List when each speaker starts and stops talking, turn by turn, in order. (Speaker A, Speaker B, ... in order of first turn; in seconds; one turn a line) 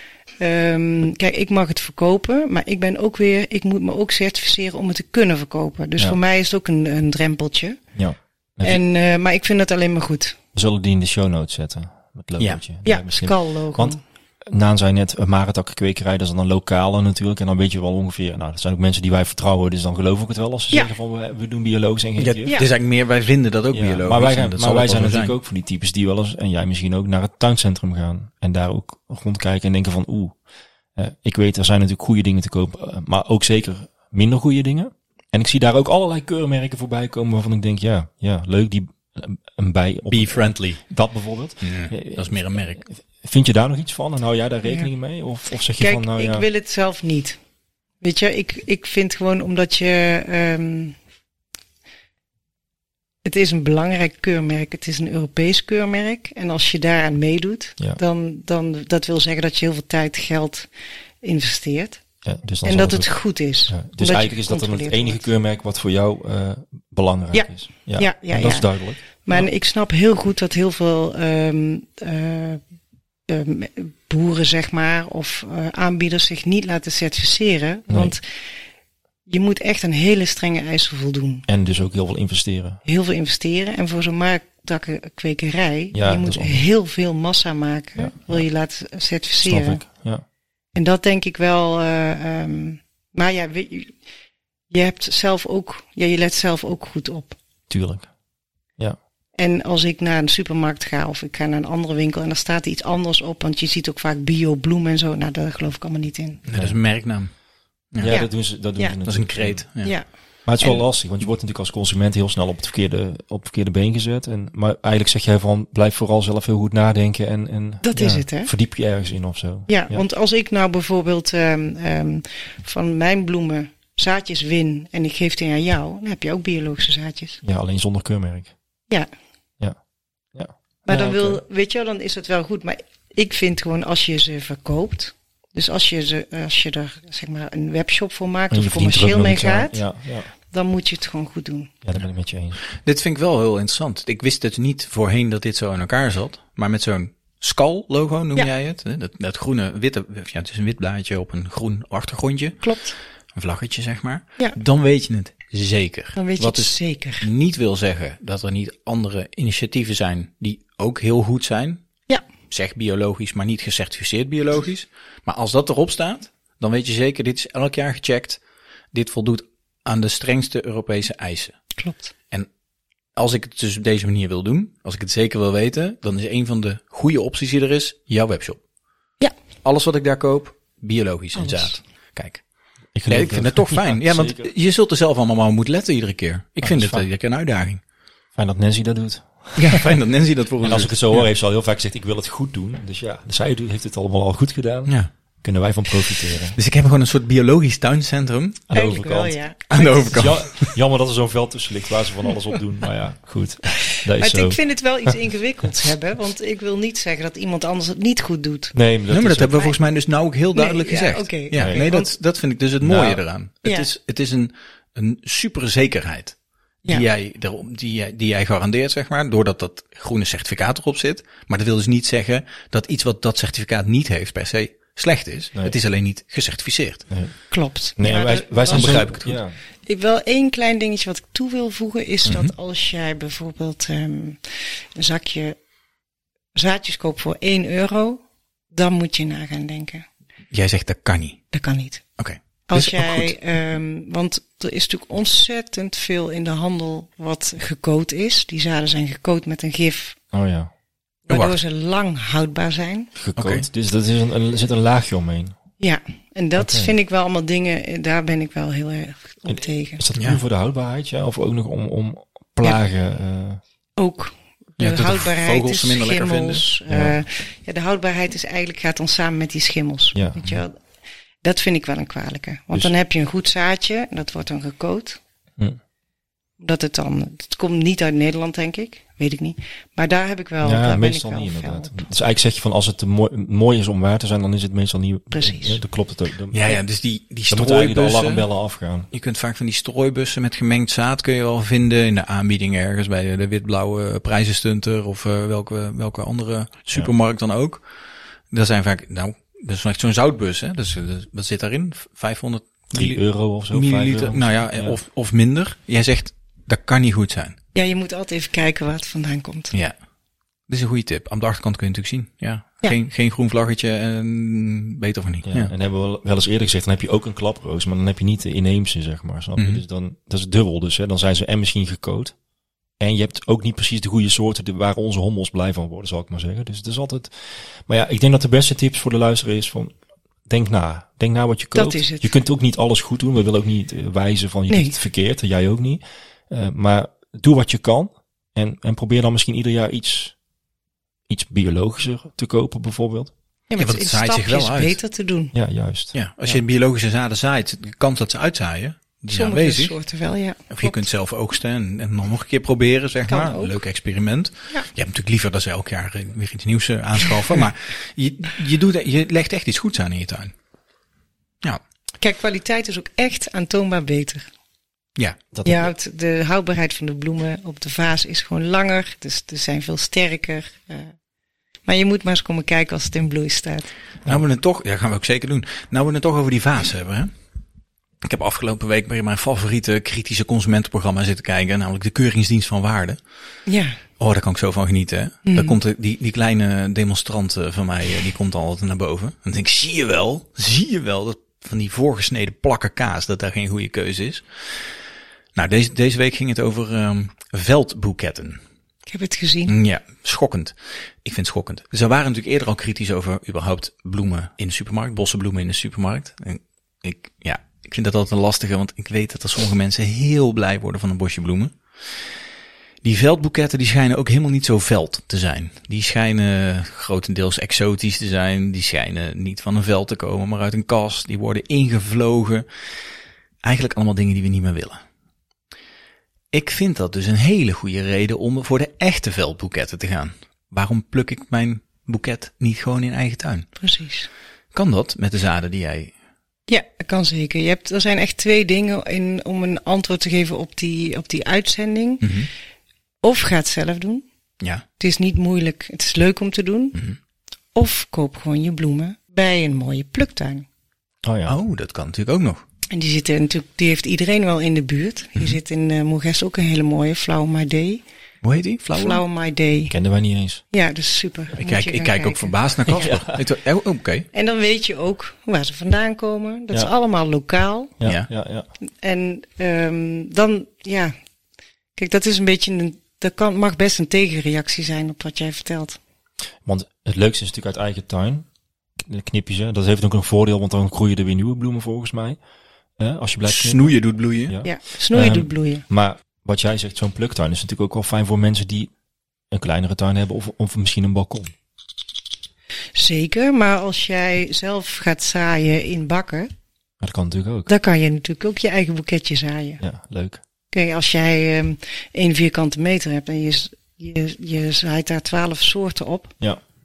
Speaker A: 0.4-7.8
Speaker B: 8.0-8.8
Speaker A: 8.6-10.4
Speaker B: 10.5-22.5
Speaker A: 12.8-14.0
Speaker C: 22.2-25.4
Speaker B: 23.7-30.4
Speaker B: 31.0-46.5
Speaker C: 40.1-40.8
Speaker C: 41.6-42.8
Speaker A: 45.8-47.4
Speaker A: 48.0-51.0
Speaker A: 53.2-60.7
Speaker A: 61.2-62.0
Speaker B: 62.2-63.1
Speaker A: 62.6-65.2
Speaker B: 63.7-69.5
Speaker A: 67.3-72.6
Speaker A: 73.3-78.2
Speaker B: 77.9-78.2
Speaker A: 79.3-81.5
Speaker B: 81.5-82.8
Speaker A: 82.8-89.9
Speaker B: 85.9-86.6
Speaker B: 88.0-88.5
Speaker B: 89.4-90.2
Speaker A: 90.8-94.0
Speaker A: 94.7-97.4
Speaker B: 97.7-98.1
Speaker A: 99.4-106.4
Speaker C: 106.5-107.3
Speaker B: 106.5-106.8
Speaker B: 108.0-109.7
Speaker A: 108.0-109.0
Speaker C: 109.1-109.9
Speaker B: 110.5-120.0
Speaker A: 110.6-110.8
Speaker A: 117.8-118.5
Speaker A: 119.7-127.4
Speaker B: 127.4-128.5
Speaker B: 130.3-131.4
Speaker A: 130.9-139.8
Speaker B: 138.5-140.3
Speaker A: 140.5-141.7
Speaker B: 141.8-142.6
Speaker C: 142.7-152.6
Speaker A: 152.6-152.9
Speaker C: 153.3-161.8
Speaker A: 156.2-157.3
Speaker C: 162.5-168.4
Speaker C: 168.9-171.6
Speaker A: 171.8-172.1
Speaker C: 173.2-178.6
Speaker C: 179.6-182.4
Speaker A: 181.4-181.8
Speaker B: 182.9-184.5
Speaker C: 183.1-187.8
Speaker B: 186.6-187.1
Speaker B: 188.3-189.9
Speaker C: 189.6-191.3
Speaker B: 190.6-196.6
Speaker C: 196.6-198.6
Speaker B: 198.7-199.4
Speaker A: 198.7-200.1
Speaker C: 199.7-200.7
Speaker B: 200.1-205.2
Speaker A: 203.9-208.8
Speaker B: 208.7-209.6
Speaker C: 209.1-227.1
Speaker A: 210.5-212.1
Speaker B: 211.6-211.8
Speaker B: 212.8-213.2
Speaker B: 227.1-227.3
Speaker A: 227.5-229.2
Speaker B: 228.0-229.5
Speaker C: 228.7-229.4
Speaker A: 229.9-235.6
Speaker C: 232.3-232.5
Speaker A: 236.6-238.2
Speaker A: 238.7-240.1
Speaker C: 240.5-241.4
Speaker A: 241.5-242.1
Speaker C: 242.2-243.3
Speaker A: 242.7-250.2
Speaker B: 250.3-250.7
Speaker A: 251.3-253.1
Speaker C: 251.3-251.6
Speaker B: 253.2-255.6
Speaker C: 253.4-253.7
Speaker A: 255.8-260.0
Speaker B: 256.6-256.9
Speaker B: 259.5-263.6
Speaker A: 264.0-270.8
Speaker C: 264.8-266.6
Speaker B: 266.9-267.2
Speaker B: 270.1-270.6
Speaker A: 271.4-275.2
Speaker A: 276.6-282.1
Speaker B: 280.6-286.8
Speaker A: 285.3-285.8
Speaker C: 286.5-288.5
Speaker B: 287.5-289.1
Speaker C: 289.1-297.8
Speaker C: 298.5-307.6
Speaker B: 302.9-305.0
Speaker A: 307.8-309.7
Speaker C: 310.7-315.7
Speaker B: 315.4-322.4
Speaker C: 319.6-319.8
Speaker B: 323.0-329.9
Speaker B: 330.5-340.4
Speaker A: 331.8-332.3
Speaker A: 334.7-334.9
Speaker B: 341.3-343.3
Speaker A: 343.7-345.5
Speaker C: 343.8-345.0
Speaker B: 345.5-346.1
Speaker C: 346.1-349.9
Speaker A: 349.3-351.0
Speaker C: 350.7-360.5
Speaker A: 353.3-353.8
Speaker A: 362.2-364.5
Speaker B: 365.5-365.9
Speaker A: 365.6-371.1
Speaker A: 371.9-373.9
Speaker C: 374.3-377.3
Speaker C: 378.2-383.2
Speaker A: 383.7-384.0
Speaker C: 384.2-394.8
Speaker A: 385.5-385.8
Speaker C: 395.6-398.6
Speaker A: 399.1-399.8
Speaker C: 399.7-411.8
Speaker C: 413.0-422.7
Speaker C: 423.6-425.0
Speaker C: 426.5-433.7
Speaker A: 433.8-434.3
Speaker C: 434.7-436.1
Speaker A: 436.7-442.3
Speaker C: 442.2-442.5
Speaker A: 443.2-444.2
Speaker A: 445.0-447.0
Speaker A: 447.8-450.7
Speaker B: 451.2-451.6
Speaker C: 451.5-452.6
Speaker A: 452.9-458.0
Speaker C: 458.4-459.2
Speaker A: 458.9-459.9
Speaker B: 459.9-460.6
Speaker A: 460.7-463.1
Speaker C: 461.6-464.3
Speaker B: 462.9-463.4
Speaker A: 464.3-467.9
Speaker B: 468.0-468.7
Speaker A: 469.0-471.1
Speaker A: 472.0-476.0
Speaker B: 476.6-478.5
Speaker B: 479.0-482.4
Speaker B: 483.0-488.9
Speaker C: 483.5-484.6
Speaker A: 484.6-485.8
Speaker B: 489.5-491.5
Speaker A: 492.9-496.5
Speaker B: 497.0-497.7
Speaker A: 497.7-499.8
Speaker B: 499.8-500.4
Speaker A: 500.7-506.4